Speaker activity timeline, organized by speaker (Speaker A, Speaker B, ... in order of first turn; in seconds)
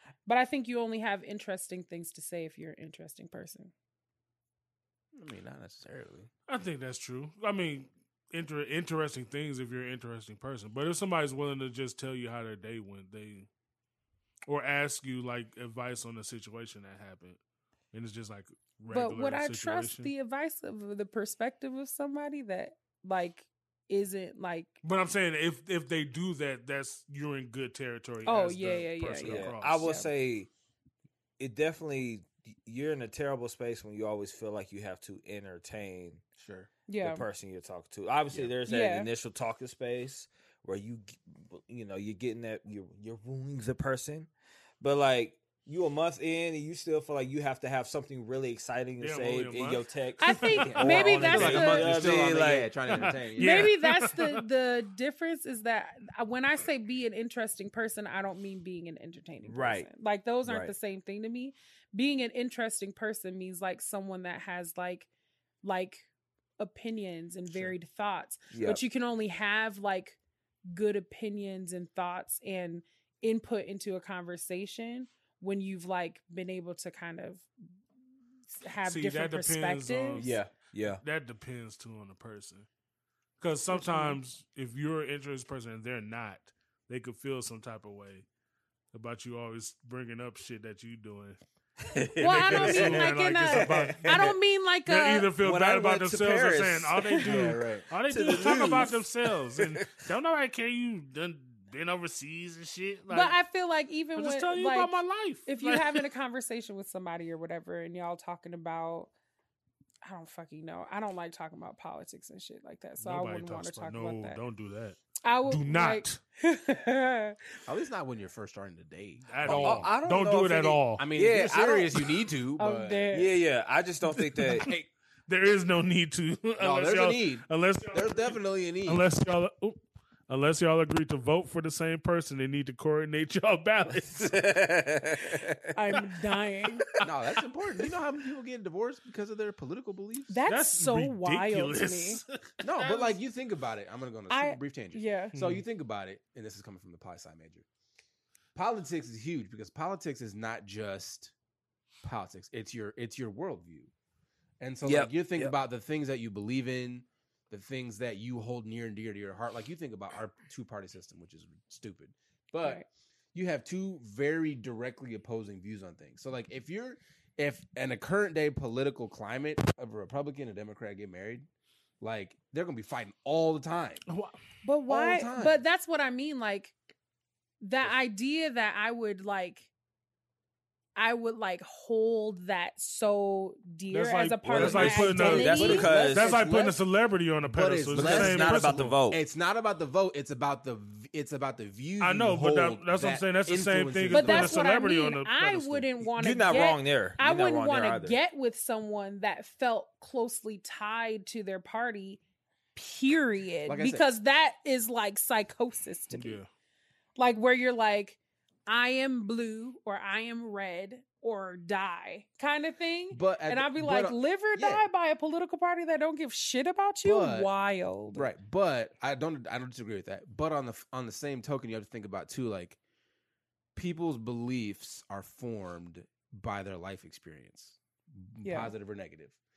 Speaker A: 0.2-3.7, 18.9-24.8, 28.2-30.1, 36.9-37.2, 38.6-39.1, 50.2-52.1, 53.4-65.1, 65.6-66.1, 66.6-77.5, 78.5-80.3, 83.7-84.2, 92.2-95.3, 98.5-99.0, 103.1-109.1, 110.0-114.4, 115.2-117.6, 122.6-123.3, 135.7-136.9, 140.3-142.2, 142.8-143.1, 144.3-145.3, 174.6-176.7, 177.6-179.7, 180.9-186.4, 194.1-202.2, 202.7-206.4, 207.2-218.3, 228.4-228.7
Speaker B: 5.1-6.3, 36.4-36.7, 38.3-38.6, 50.6-53.8, 97.2-97.9, 117.7-119.9, 121.0-123.0, 126.6-129.1, 137.0-140.4, 142.6-147.7, 148.5-151.3, 152.0-153.9, 154.6-171.5, 172.0-174.0, 174.9-175.6, 184.6-186.8, 187.4-194.6, 203.7-204.1, 213.1-214.9, 217.0-217.5, 218.1-222.8, 223.7-229.4
Speaker C: 6.5-13.5, 14.5-17.4, 17.9-20.1, 24.8-29.8, 49.0-51.0, 52.9-54.4, 78.8-80.4, 80.9-82.7, 83.4-88.2, 88.9-91.4, 92.3-94.3, 94.9-103.3, 104.2-106.0, 113.0-116.2, 119.2-121.0, 124.2-124.7, 125.3-134.4, 140.5-142.5, 145.3-145.6, 174.1-174.4, 183.9-189.0, 192.0-195.9, 206.1-206.4
Speaker D: 29.2-30.5, 31.4-36.2, 37.0-44.3, 44.8-53.0, 59.4-59.9, 60.4-60.7, 68.5-68.8, 80.2-81.0, 91.8-94.3, 95.4-97.0, 98.1-99.8, 119.4-122.0, 123.1-124.7, 134.1-135.7, 154.8-155.5, 184.5-186.3, 187.9-189.2, 196.2-198.2